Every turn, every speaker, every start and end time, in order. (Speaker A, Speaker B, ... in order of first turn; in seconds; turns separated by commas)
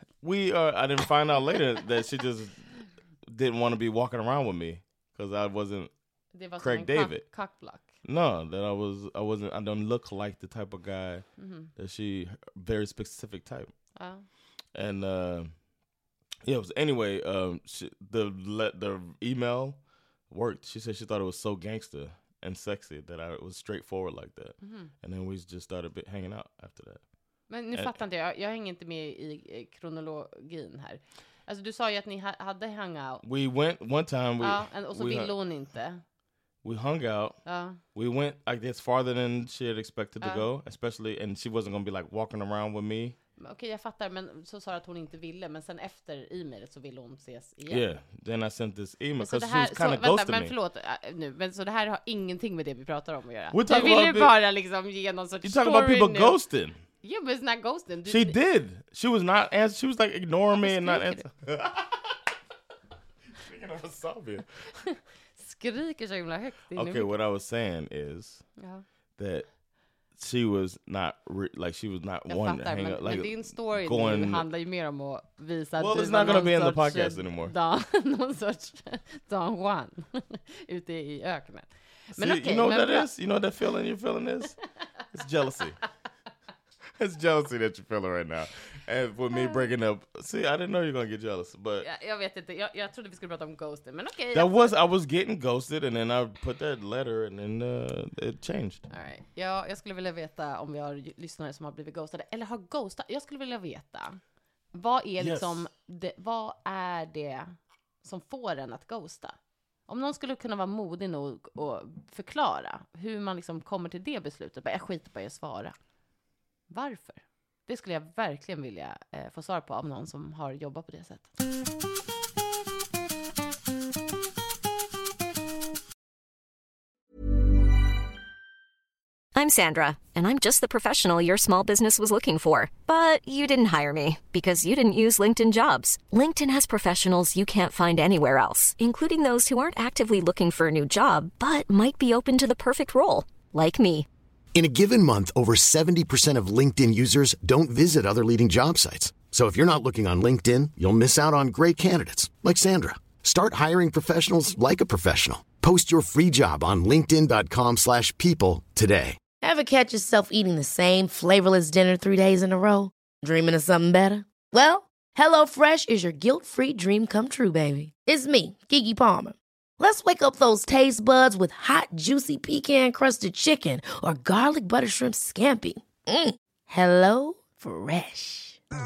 Speaker A: 0.2-2.6, Speaker A: 3.3-5.9, Speaker B: 6.3-7.9, Speaker A: 6.6-7.2, Speaker A: 8.0-11.2, Speaker B: 11.4-11.7, Speaker A: 11.8-13.7, Speaker B: 13.9-14.2, Speaker A: 14.7-15.5, Speaker A: 16.4-19.8, Speaker A: 20.3-27.0, Speaker B: 24.6-24.9, Speaker B: 27.5-33.2, Speaker A: 33.2-35.3, Speaker B: 34.4-36.0, Speaker A: 36.6-37.4, Speaker B: 37.5-37.8, Speaker A: 37.9-43.1, Speaker B: 40.2-40.5, Speaker B: 43.4-47.9, Speaker A: 47.7-50.5, Speaker B: 49.2-56.4, Speaker A: 53.5-54.4, Speaker A: 55.4-56.8, Speaker B: 57.0-58.4, Speaker A: 58.1-62.1, Speaker B: 60.6-61.3, Speaker A: 63.4-64.5, Speaker B: 64.7-67.1, Speaker A: 66.7-68.4, Speaker B: 68.6-68.8, Speaker A: 69.2-69.5, Speaker A: 70.2-74.5, Speaker B: 72.3-83.1, Speaker A: 75.8-77.5, Speaker A: 82.2-84.6, Speaker A: 85.1-85.8, Speaker A: 87.0-91.8, Speaker B: 89.3-89.7, Speaker B: 91.8-94.7, Speaker A: 94.3-98.8, Speaker B: 98.9-104.2, Speaker B: 104.7-109.3, Speaker A: 105.2-105.6, Speaker B: 109.9-115.7, Speaker B: 116.7-121.3, Speaker C: 129.3-144.1, Speaker D: 144.5-159.2, Speaker E: 159.4-178.6